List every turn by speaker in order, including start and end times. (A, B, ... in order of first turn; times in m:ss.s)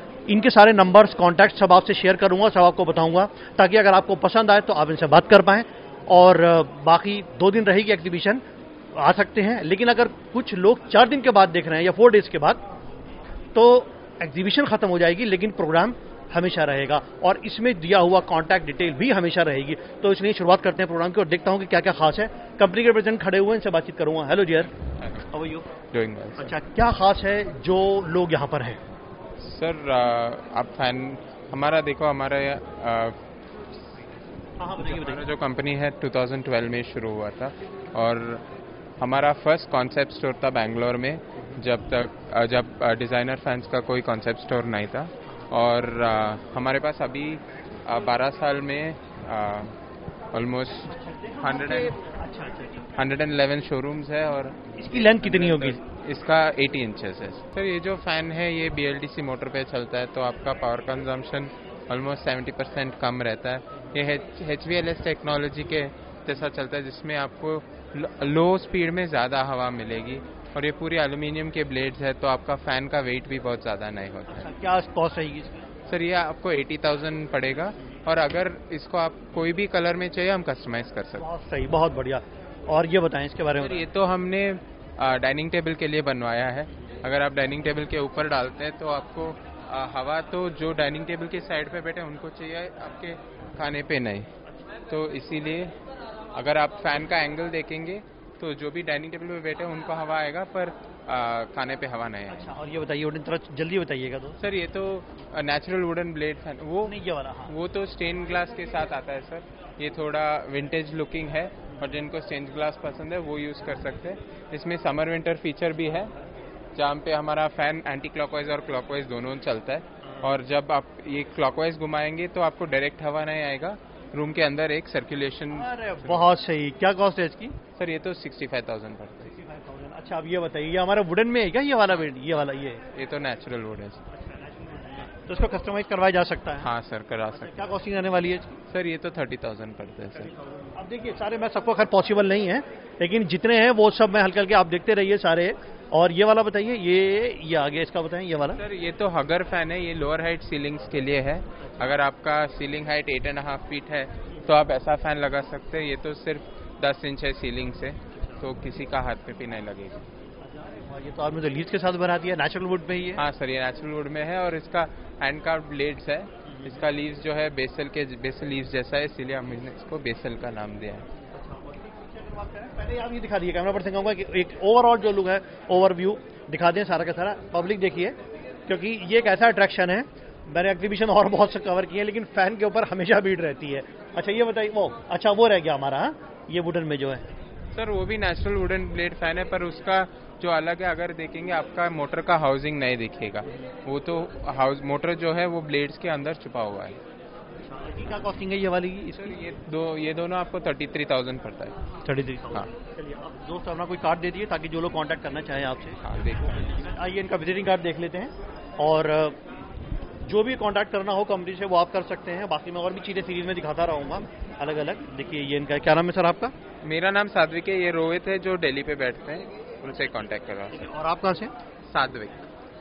0:00.3-0:08.4 A
0:09.0-0:12.6 A
0:13.5-0:24.7 A
0:25.0-0:25.3 B
0:25.3-0:25.7 A
0:25.9-0:26.5 B
0:26.4-0:28.8 A
0:29.4-0:33.2 B
0:34.6-0:35.2 A
0:34.8-0:38.4 B
0:39.0-0:49.7 B
0:50.3-0:52.0 B
0:51.1-0:52.8 A
0:52.9-1:14.5 B
0:54.8-0:55.8 A
1:14.3-1:15.6 A
1:15.9-1:21.3 B
1:21.2-1:23.8 A
1:23.6-1:34.3 B
1:34.9-1:35.7 B
1:36.3-1:42.5 B
1:42.3-1:44.4 A
1:44.4-1:46.9 B
1:46.8-1:47.5 A
1:47.5-1:56.1 B
1:56.8-2:06.3 B
2:00.1-2:00.4 A
2:05.5-2:07.6 A
2:07.8-2:09.3 B
2:09.2-2:12.8 A
2:12.9-2:14.0 B
2:14.1-2:16.7 A
2:16.6-2:17.7 B
2:17.3-2:18.6 A
2:18.7-2:20.3 B
2:20.2-2:28.6 A
2:28.6-2:40.0 B
2:40.4-2:43.2 A
2:43.2-2:51.0 B
2:51.3-2:58.2 A
2:58.7-3:07.3 A
3:07.7-3:17.0 B
3:17.7-3:19.4 A
3:19.2-3:21.8 B
3:22.0-3:29.4 A
3:26.0-3:26.7 B
3:30.2-3:36.5 A
3:36.8-3:40.9 B
3:40.7-3:41.5 A
3:41.9-3:42.5 B